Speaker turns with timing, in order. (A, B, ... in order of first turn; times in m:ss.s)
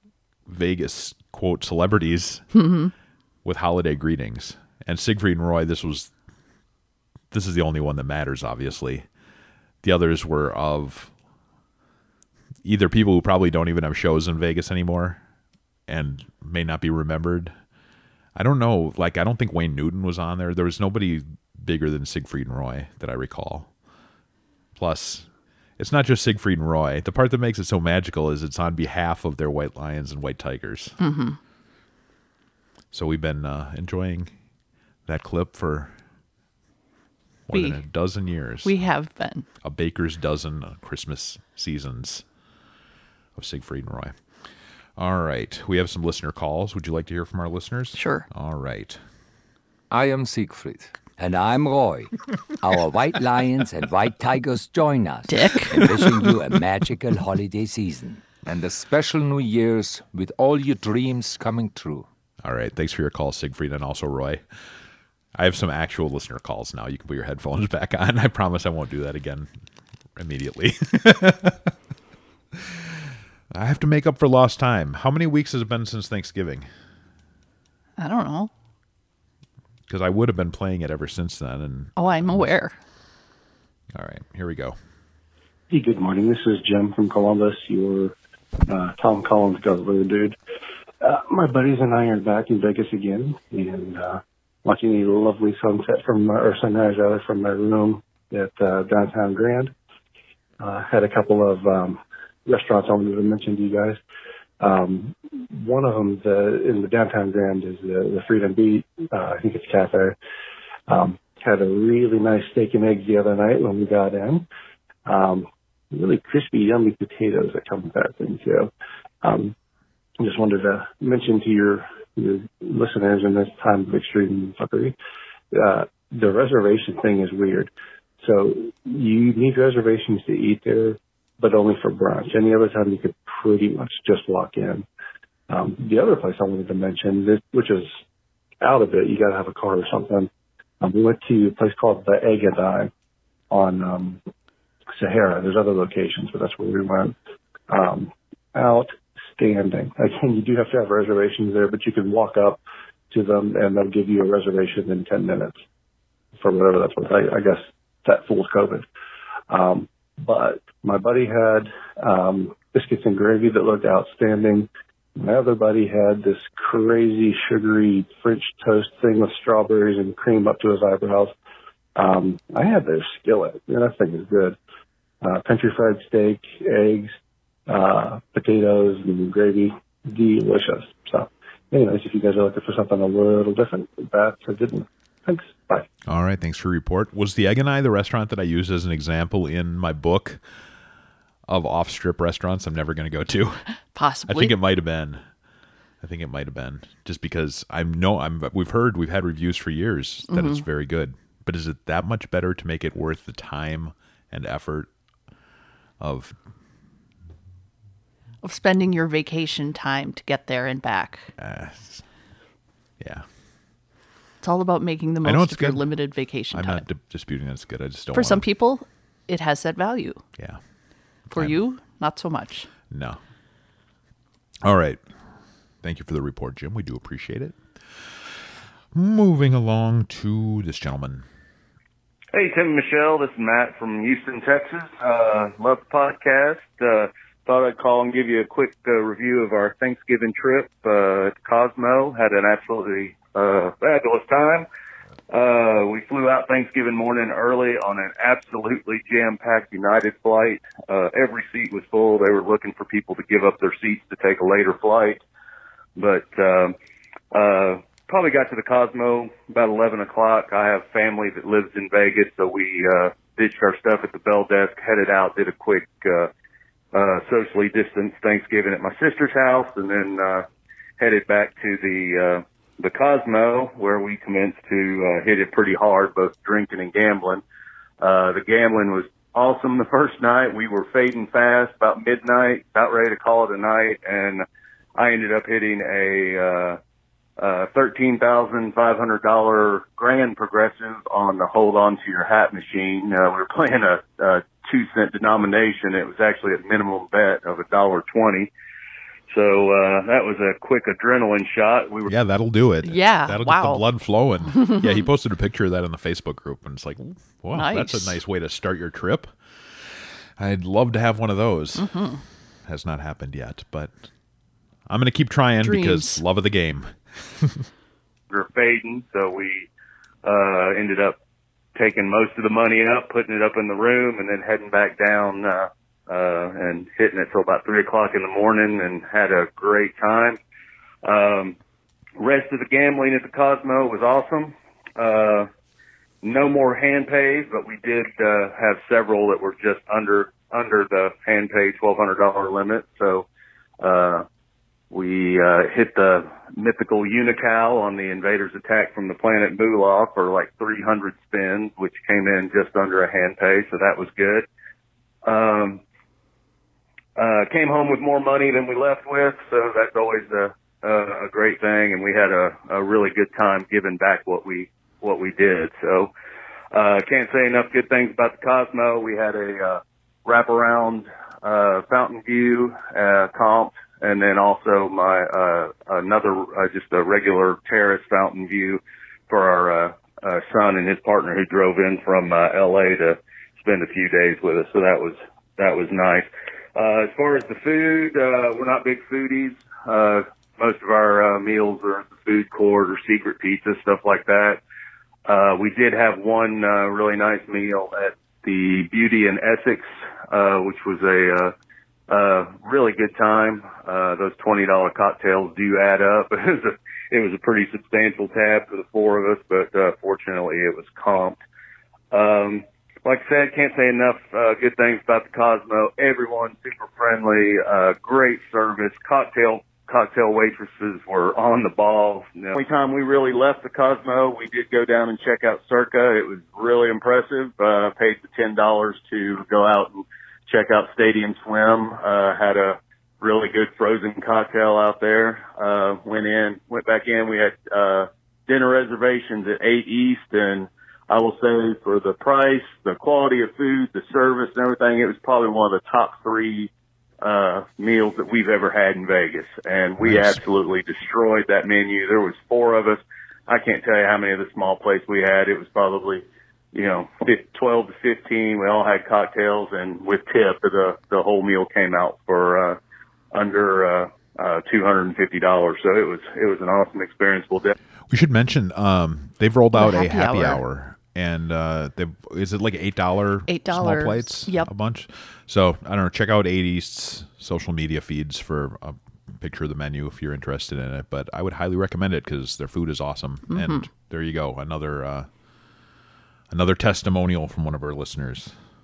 0:00.5-0:02.5 A
0:02.5-0:02.9 B
0:03.4-0:06.1 A
0:07.3-0:09.0 A
0:09.8-0:11.1 A
0:12.6-0:15.2 A
0:15.9-0:17.5 A
0:18.4-0:23.7 A
0:24.8-0:31.0 A
0:31.0-0:31.4 B
0:32.9-0:34.3 A
0:35.0-0:35.9 A
0:37.5-0:38.7 A
0:37.5-0:37.8 B
0:38.6-0:39.5 B
0:39.6-0:42.2 A
0:43.4-0:44.2 A
0:45.0-0:49.0 A
0:47.9-0:48.3 B
0:49.9-0:50.9 C
0:51.2-0:58.2 D
0:55.3-0:56.1 B
0:58.4-1:02.1 C
1:02.4-1:04.4 A
1:05.4-1:09.5 A
1:10.2-1:11.7 A
1:13.5-1:16.7 A
1:18.0-1:18.5 B
1:19.9-1:22.5 A
1:22.0-1:22.8 B
1:23.9-1:24.8 A
1:25.7-1:28.1 E
1:28.7-1:30.4 E
1:31.0-1:39.7 E
1:40.6-1:44.0 E
1:44.6-1:50.2 E
1:50.9-1:54.4 E
1:55.0-1:58.7 E
1:59.2-1:59.5 E
2:00.2-2:04.9 E
2:05.5-2:07.7 E
2:08.2-2:14.8 E
2:15.5-2:18.0 E
2:18.6-2:22.9 E
2:23.5-2:24.2 E
2:25.0-2:27.2 E
2:27.7-2:35.6 E
2:36.4-2:38.9 E
2:39.5-2:51.3 E
2:52.0-2:54.6 E
2:55.2-2:57.1 E
2:57.7-3:05.9 E
3:06.1-3:10.4 A
3:11.5-3:13.6 A
3:13.9-3:14.5 B
3:14.3-3:15.2 A
3:16.0-3:24.9 A
3:20.3-3:20.6 B
3:26.0-3:26.3 A
3:28.4-3:31.3 B
3:31.4-3:32.0 A
3:33.0-3:33.2 A
3:34.4-3:36.8 B
3:35.2-3:35.9 A
3:36.5-3:38.4 A
3:38.1-3:40.2 B
3:41.3-3:42.7 B
3:42.9-3:43.2 A
3:44.6-3:45.0 A
3:45.8-3:48.2 A
3:48.9-3:51.2 A
3:52.3-4:04.7 F
4:05.3-4:15.2 F
4:16.0-4:16.7 F
4:17.3-4:26.3 F
4:26.9-4:30.4 F
4:31.0-4:37.4 F
4:38.0-4:44.4 F
4:45.0-4:46.8 F
4:47.4-4:58.5 F
4:59.3-5:02.1 F
5:02.1-5:09.3 A
5:02.8-5:03.8 B
5:04.5-5:04.9 B
5:07.5-5:08.2 B
5:10.4-5:11.9 A
5:11.8-5:12.2 B
5:12.7-5:13.9 A
5:14.9-5:17.7 A
5:15.6-5:16.2 B
5:18.3-5:19.7 F
5:20.2-5:21.2 F
5:21.7-5:30.4 F
5:31.0-5:31.6 F
5:32.2-5:35.5 F
5:36.2-5:43.2 F
5:43.8-5:44.2 F
5:44.9-5:54.5 F
5:55.2-5:55.8 F
5:57.2-6:06.1 F
6:06.7-6:34.6 F
6:35.2-6:41.5 F
6:42.1-6:51.4 F
6:52.1-7:26.7 F
7:27.2-7:42.8 F
7:30.0-7:30.4 A
7:43.3-7:47.7 F
7:48.1-8:05.3 A
7:49.7-7:50.6 B
7:53.5-7:54.7 B
8:03.5-8:03.9 B
8:06.5-8:08.5 A